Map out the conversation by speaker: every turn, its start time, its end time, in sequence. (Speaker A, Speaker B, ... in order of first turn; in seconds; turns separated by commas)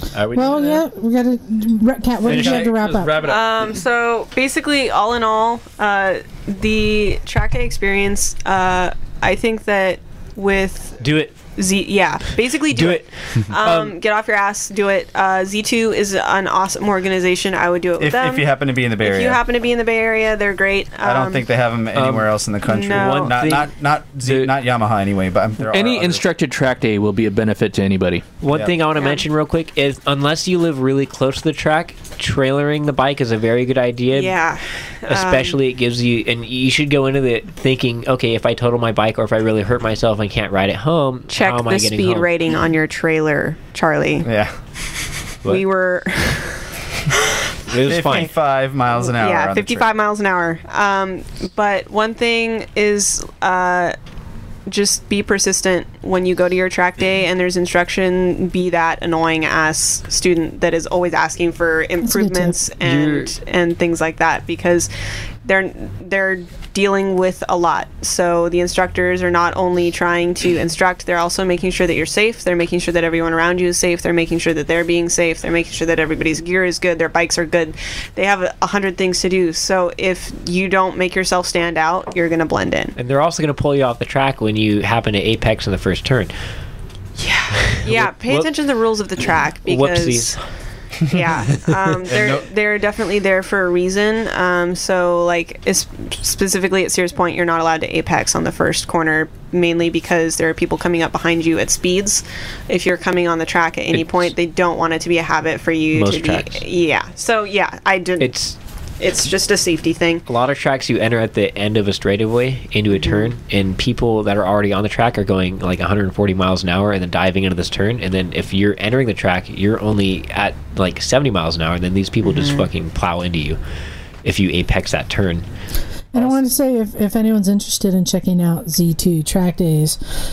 Speaker A: 0.1-0.8, Speaker B: 0.3-3.2, Speaker A: 2.2-3.8, Speaker C: 3.2-11.0, Speaker D: 11.0-11.4, Speaker C: 11.6-18.5, Speaker D: 12.7-13.9, Speaker E: 18.0-19.4, Speaker C: 19.0-21.4, Speaker E: 21.0-26.2, Speaker D: 21.9-24.5, Speaker C: 22.7-23.4, Speaker A: 25.6-28.3, Speaker D: 28.4-34.4, Speaker E: 28.5-28.8, Speaker C: 28.9-29.3, Speaker C: 34.1-35.6, Speaker D: 35.1-42.3, Speaker C: 41.3-44.3, Speaker E: 44.2-44.5, Speaker C: 45.4-46.6, Speaker D: 47.7-48.4, Speaker E: 47.7-49.9, Speaker C: 49.0-53.9, Speaker C: 54.7-64.9, Speaker B: 62.0-62.6, Speaker D: 62.8-63.3, Speaker C: 65.4-83.0, Speaker D: 83.0-86.3, Speaker C: 87.2-90.3, Speaker D: 87.6-88.5, Speaker D: 89.6-90.4, Speaker C: 91.1-108.3, Speaker E: 92.0-92.4, Speaker D: 103.9-104.3, Speaker D: 105.9-106.6, Speaker D: 108.2-108.6, Speaker C: 109.0-110.2, Speaker D: 110.3-123.6, Speaker C: 112.9-113.3, Speaker C: 122.2-122.7, Speaker D: 124.2-125.5, Speaker B: 126.1-130.0